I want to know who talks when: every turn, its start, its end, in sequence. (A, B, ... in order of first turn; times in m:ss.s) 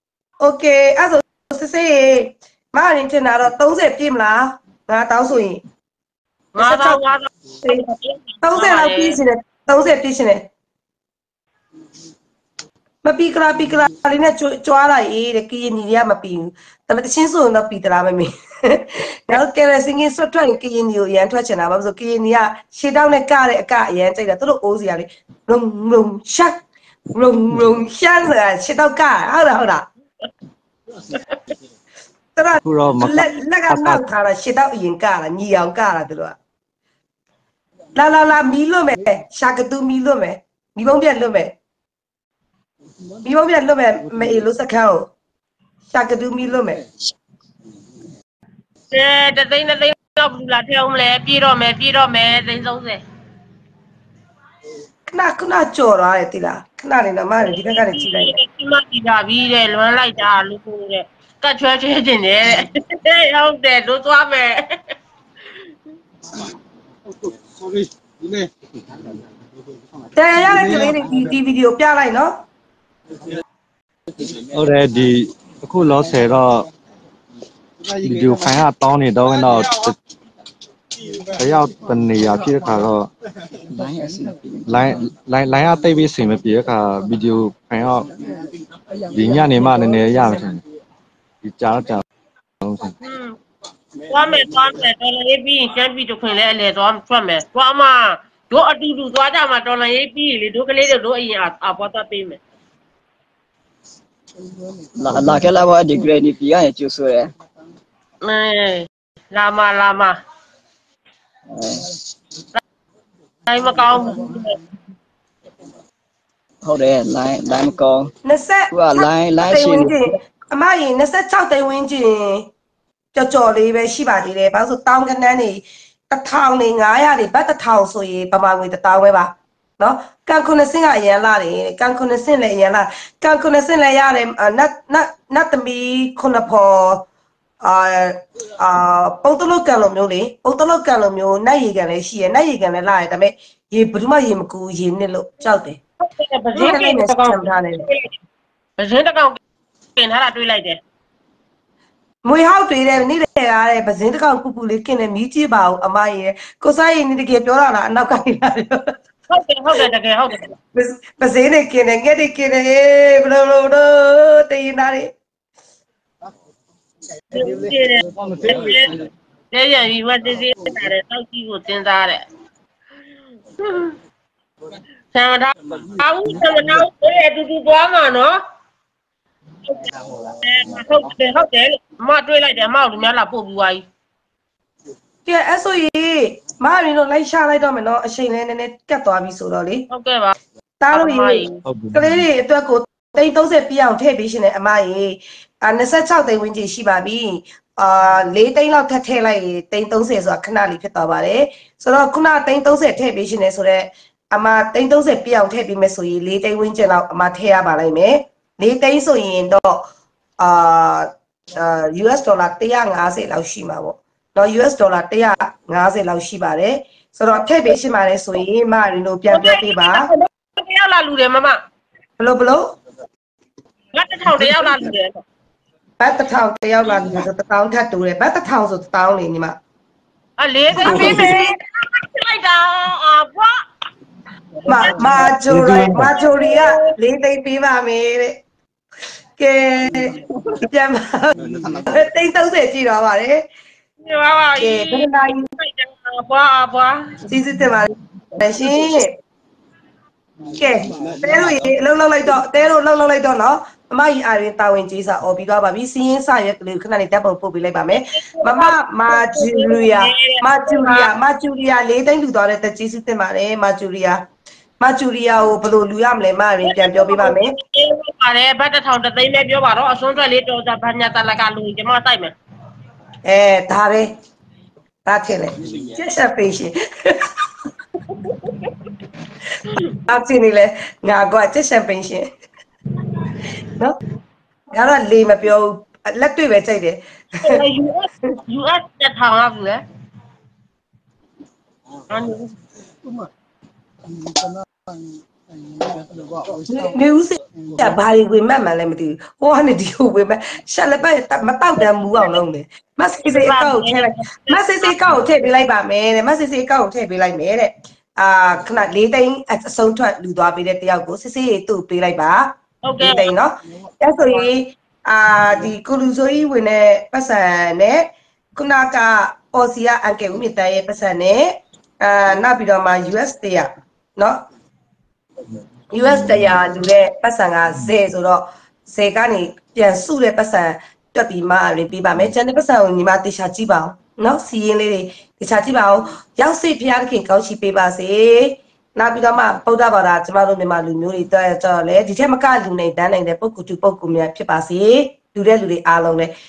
0:00.4-0:05.6 A
0:06.6-0:09.2 B
0:06.6-0:07.0 A
0:08.4-0:10.5 A
0:13.0-0:26.6 A
0:27.2-0:29.9 A
0:32.4-0:36.4 A
0:32.6-0:34.0 C
0:38.0-0:41.5 A
0:43.2-0:45.1 A
0:45.9-0:46.8 A
0:48.9-0:53.0 B
0:55.1-0:58.4 A
0:57.4-1:04.8 B
1:07.4-1:08.5 D
1:10.2-1:12.4 A
1:14.5-1:16.7 C
1:18.0-1:20.0 C
1:21.3-1:23.1 C
1:23.7-1:25.1 E
1:24.7-1:28.1 C
1:29.1-1:30.6 C
1:31.4-1:32.0 C
1:32.6-1:33.0 C
1:33.0-1:33.4 B
1:34.1-1:42.4 B
1:44.9-1:47.3 E
1:48.2-1:50.2 B
1:51.5-1:51.9 E
1:53.5-1:54.6 B
1:56.6-1:58.1 E
1:58.2-2:02.5 A
1:58.7-2:00.1 E
2:03.2-2:17.0 A
2:17.6-2:25.8 A
2:26.0-2:28.1 B
2:26.6-2:27.9 A
2:28.8-2:29.4 B
2:30.0-2:30.8 B
2:32.2-2:39.0 A
2:39.3-2:40.5 B
2:40.8-2:45.1 A
2:47.3-2:49.0 B
2:47.4-2:49.0 D
2:49.5-2:52.2 B
2:53.6-2:54.0 B
2:55.1-2:58.4 B
3:00.4-3:03.8 B
3:05.3-3:09.9 A
3:09.9-3:10.4 B
3:10.8-3:29.9 A
3:10.9-3:11.6 B
3:11.7-3:12.3 C
3:30.4-3:40.1 A
3:39.3-3:41.6 B
3:42.2-3:42.7 A
3:44.0-3:45.2 B
3:44.4-3:44.7 A
3:46.0-3:49.6 A
3:50.4-3:53.6 B
3:50.8-3:51.5 A
3:54.7-3:58.4 A
3:54.7-3:55.4 B
3:55.3-3:56.2 C
3:56.0-3:56.9 B
3:59.4-4:03.4 A
4:04.0-4:07.2 B
4:04.6-4:05.5 A
4:07.3-4:09.1 A
4:10.6-4:24.2 A
4:10.9-4:11.5 D
4:18.2-4:21.1 B
4:24.8-4:27.5 A
4:26.6-4:32.3 B
4:33.3-4:34.1 A
4:35.1-4:37.3 A
4:39.8-4:42.3 A
4:44.7-4:47.6 A
4:47.4-4:49.8 B
4:52.1-4:52.5 B
4:56.7-5:24.4 A
5:02.1-5:02.4 B
5:03.2-5:05.3 B
5:12.8-5:13.3 B
5:25.9-5:46.3 A